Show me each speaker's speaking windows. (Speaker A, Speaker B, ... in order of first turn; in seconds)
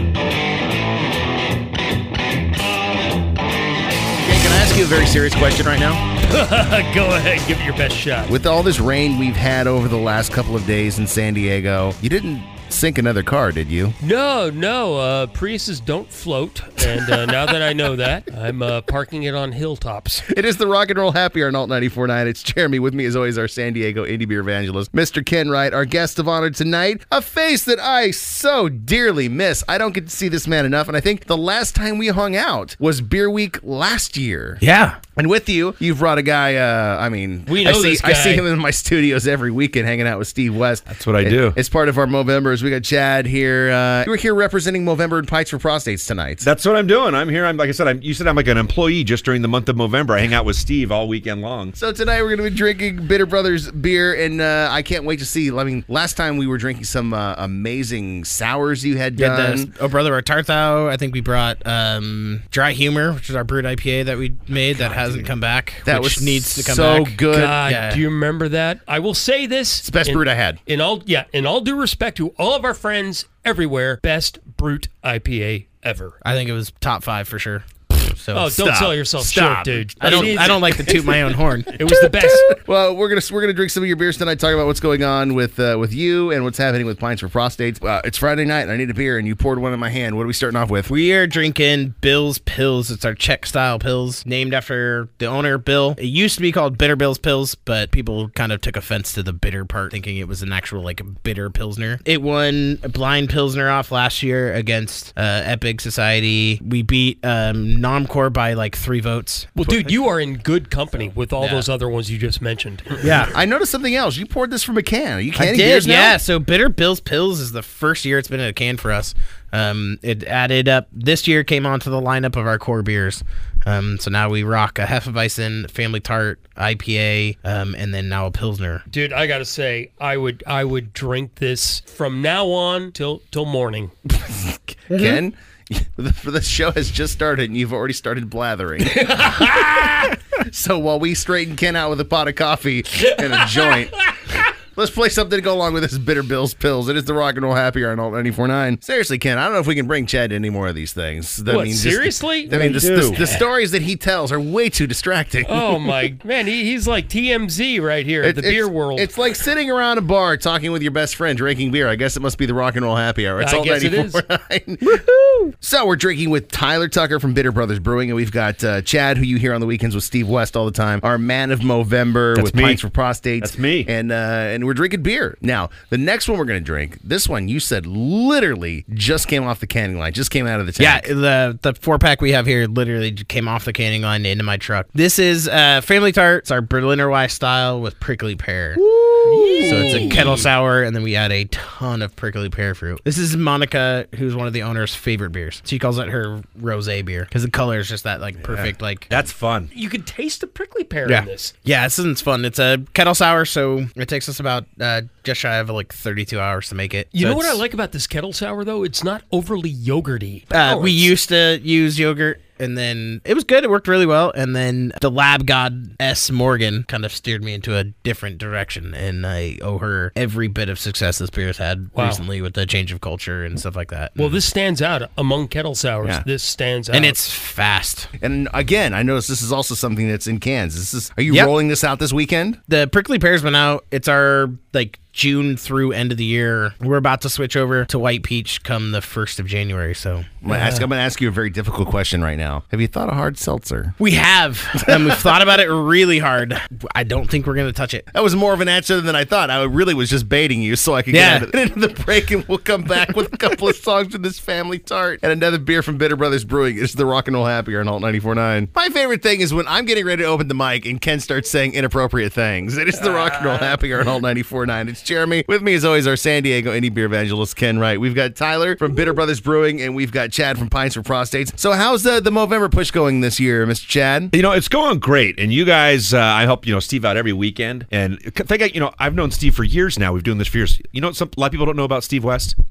Speaker A: 4.2-6.0, 8.3-14.0, 20.3-34.6, 35.2-46.5, 51.8-59.7, 65.8-67.6, 69.8-70.6, 78.5-81.0, 81.9-90.9, 113.3-116.2, 134.9-139.1, 140.4-144.1, 144.7-155.9, 158.2-165.0, 165.6-181.1, 188.8-190.2, 198.4-198.7, 228.2-232.6, 240.4-243.9, 244.9-245.2, 248.1-274.3
Speaker B: 6.3-8.3, 14.0-20.2, 37.5-38.5, 67.3-76.2, 78.3-81.2, 81.8-82.6, 109.6-113.2, 128.9-133.9, 138.9-140.1, 143.0-143.9, 151.5-153.5, 155.5-159.2, 163.4-164.2, 189.2-190.4, 199.7-201.5, 207.1-211.1, 221.9-222.2, 224.2-227.2, 240.5-240.9, 263.0-263.8
Speaker C: 34.6-35.0, 59.1-68.0, 76.2-78.5, 80.0-81.8, 90.9-109.8, 111.4-111.7, 113.0-113.3, 115.4-128.8, 134.9-135.2, 164.8-165.5, 180.8-188.8, 189.6-199.1, 201.1-207.6, 210.5-224.2, 226.9-228.1, 231.3-231.5, 232.7-240.3, 244.0-248.1, 251.1-251.5
Speaker D: 40.9-41.6, 46.4-51.8, 152.5-153.3, 172.3-172.8, 173.4-173.9, 199.1-199.7, 274.3-282.6